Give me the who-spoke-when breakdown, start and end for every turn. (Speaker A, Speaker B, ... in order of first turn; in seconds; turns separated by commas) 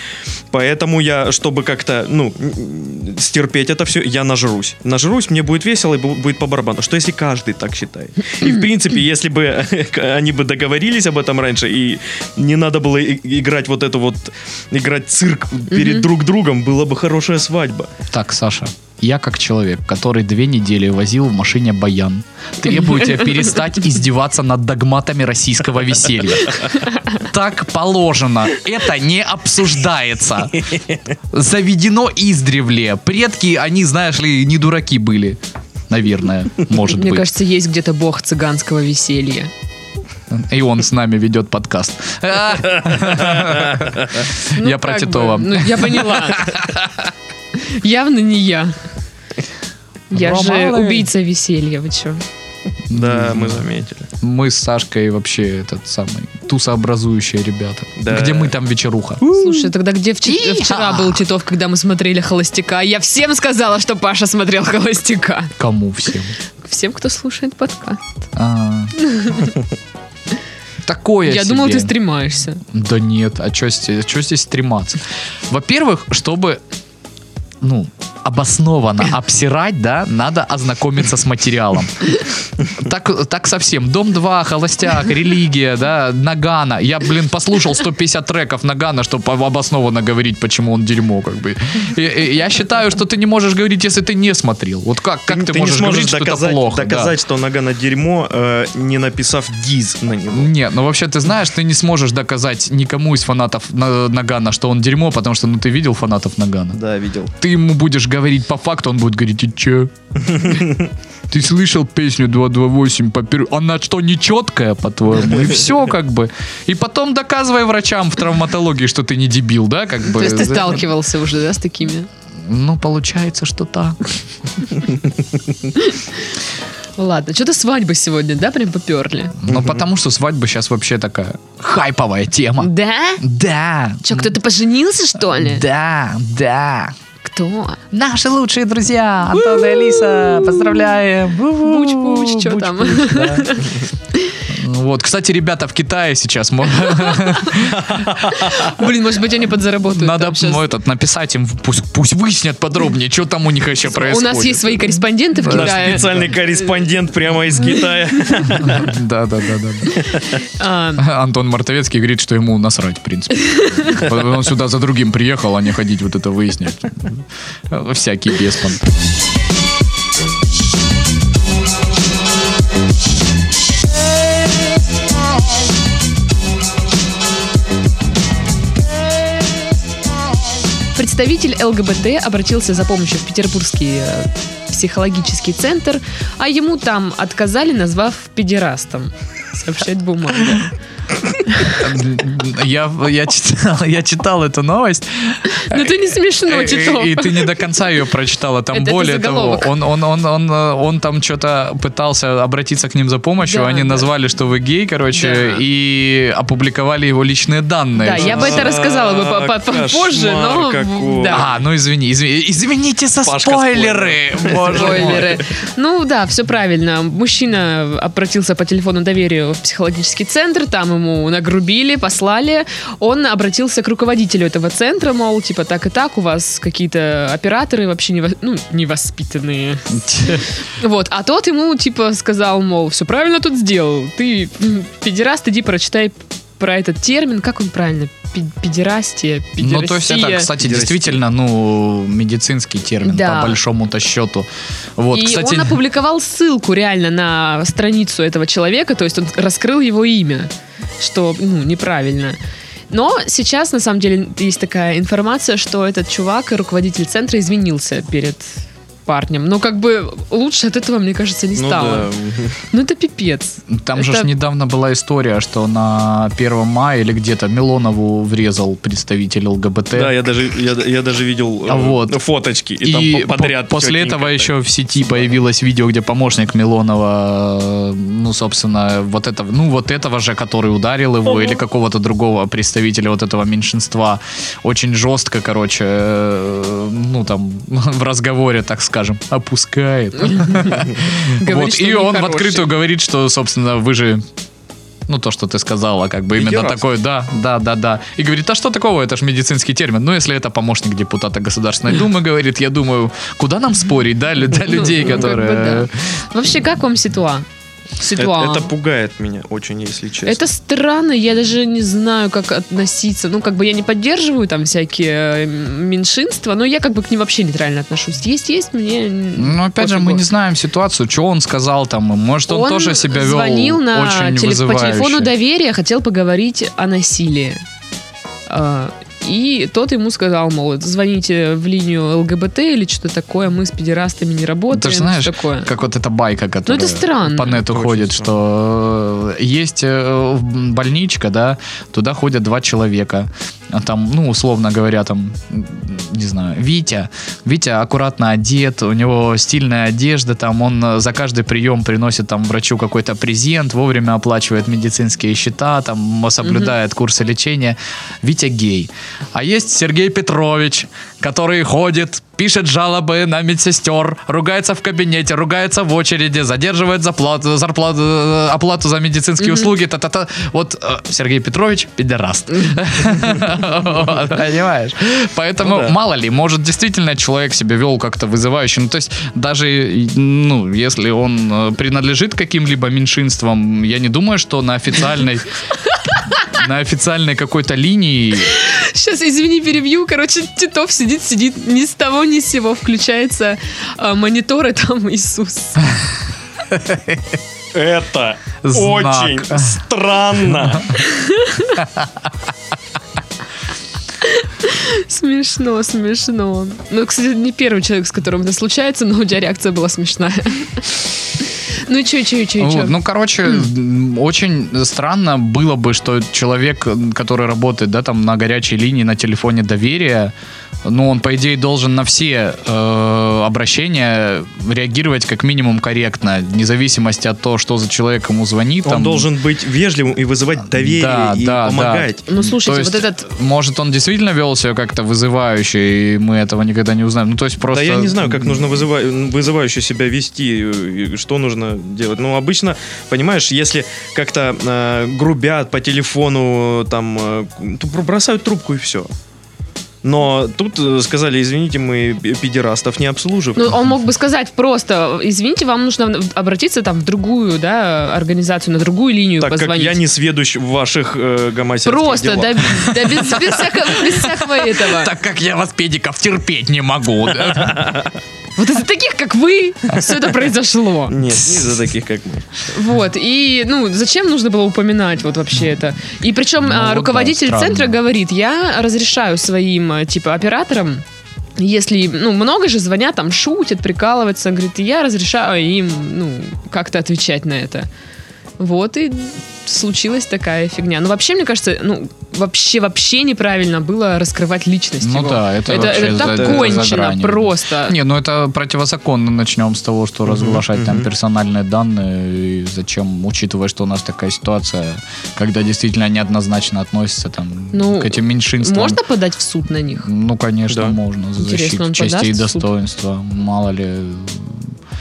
Speaker A: 0.5-17.9, Speaker B: 15.7-16.1, Speaker C: 18.1-30.7, Speaker C: 31.3-37.3, Speaker B: 36.9-39.5, Speaker C: 40.3-47.1, Speaker A: 43.4-44.1, Speaker B: 44.5-46.6, Speaker B: 47.5-48.8, Speaker B: 50.1-52.2, Speaker C: 50.1-51.1, Speaker C: 52.9-53.7, Speaker A: 52.9-54.1, Speaker C: 54.2-59.7, Speaker A: 58.0-58.5, Speaker B: 59.2-65.5, Speaker C: 60.2-61.2, Speaker C: 65.6-66.4, Speaker B: 66.6-68.1, Speaker C: 68.3-69.0, Speaker B: 69.0-69.5, Speaker C: 70.8-71.9, Speaker B: 71.2-72.6, Speaker C: 72.6-76.6, Speaker C: 77.6-97.2, Speaker A: 95.3-100.5, Speaker C: 100.3-106.8, Speaker A: 106.7-107.3, Speaker C: 107.4-109.9, Speaker A: 110.3-110.9, Speaker C: 111.3-120.8, Speaker B: 120.1-122.1, Speaker C: 122.4-124.0, Speaker B: 125.8-126.0, Speaker B: 127.0-129.4, Speaker C: 129.4-134.3, Speaker A: 129.5-129.8, Speaker B: 132.6-133.2, Speaker B: 134.0-135.7, Speaker C: 135.3-136.9, Speaker B: 137.2-137.8, Speaker C: 137.9-143.6, Speaker B: 139.3-140.9, Speaker B: 141.6-144.4, Speaker C: 144.5-148.6, Speaker B: 147.1-147.6, Speaker A: 147.7-148.4, Speaker B: 148.2-150.7, Speaker C: 149.9-156.3, Speaker B: 153.9-156.3, Speaker A: 155.5-158.9, Speaker C: 158.4-160.0, Speaker A: 160.0-160.2, Speaker B: 160.4-161.1, Speaker C: 161.0-168.9, Speaker B: 163.6-164.0, Speaker B: 180.9-190.7, Speaker B: 191.4-191.8, Speaker C: 191.7-208.7, Speaker B: 195.5-197.6, Speaker B: 198.7-199.7, Speaker B: 203.4-204.1, Speaker B: 205.1-205.6, Speaker B: 208.0-211.4, Speaker A: 208.2-211.5, Speaker C: 211.3-215.4, Speaker A: 213.2-215.4, Speaker B: 214.7-240.5, Speaker C: 229.9-230.5, Speaker C: 239.6-245.8, Speaker A: 240.6-241.2, Speaker B: 243.0-243.6, Speaker B: 245.1-252.4, Speaker B: 252.9-262.1, Speaker A: 261.6-262.6, Speaker B: 262.7-264.3, Speaker C: 263.7-270.1, Speaker A: 269.9-274.5, Speaker C: 271.7-272.2, Speaker C: 272.8-294.2, Speaker A: 275.1-275.3, Speaker A: 281.3-281.6, Speaker B: 290.3-292.7, Speaker C: 295.1-305.9, Speaker A: 296.4-296.8, Speaker B: 304.6-307.5, Speaker B: 308.0-308.7, Speaker A: 308.2-310.4, Speaker B: 310.3-320.2, Speaker C: 319.4-325.3, Speaker B: 322.5-327.6, Speaker B: 328.5-335.7, Speaker C: 334.7-385.4, Speaker B: 336.7-337.6, Speaker A: 337.6-338.3, Speaker B: 356.4-356.7, Speaker B: 369.4-369.7, Speaker A: 375.6-375.9, Speaker C: 386.4-388.6, Speaker B: 388.5-395.9, Speaker C: 396.7-397.4, Speaker A: 397.7-401.0, Speaker C: 398.6-399.8, Speaker C: 400.7-401.0, Speaker B: 401.0-401.8, Speaker C: 401.8-402.3, Speaker B: 404.2-413.0, Speaker C: 412.6-420.3, Speaker C: 420.9-429.3, Speaker A: 428.9-432.2, Speaker C: 430.7-438.8, Speaker B: 432.3-433.3, Speaker A: 437.7-449.1, Speaker A: 450.0-453.7, Speaker B: 453.6-460.0, Speaker A: 459.4-462.9, Speaker B: 461.9-465.1, Speaker C: 462.9-468.0, Speaker A: 467.8-468.0, Speaker B: 468.6-471.2, Speaker A: 471.1-472.7, Speaker B: 472.7-481.0, Speaker C: 476.6-478.0, Speaker B: 481.6-487.9, Speaker B: 488.6-498.0, Speaker C: 495.0-509.0, Speaker A: 495.7-496.9, Speaker A: 500.3-501.1, Speaker B: 507.7-510.1, Speaker C: 510.0-514.8, Speaker A: 510.7-511.0, Speaker B: 511.4-512.7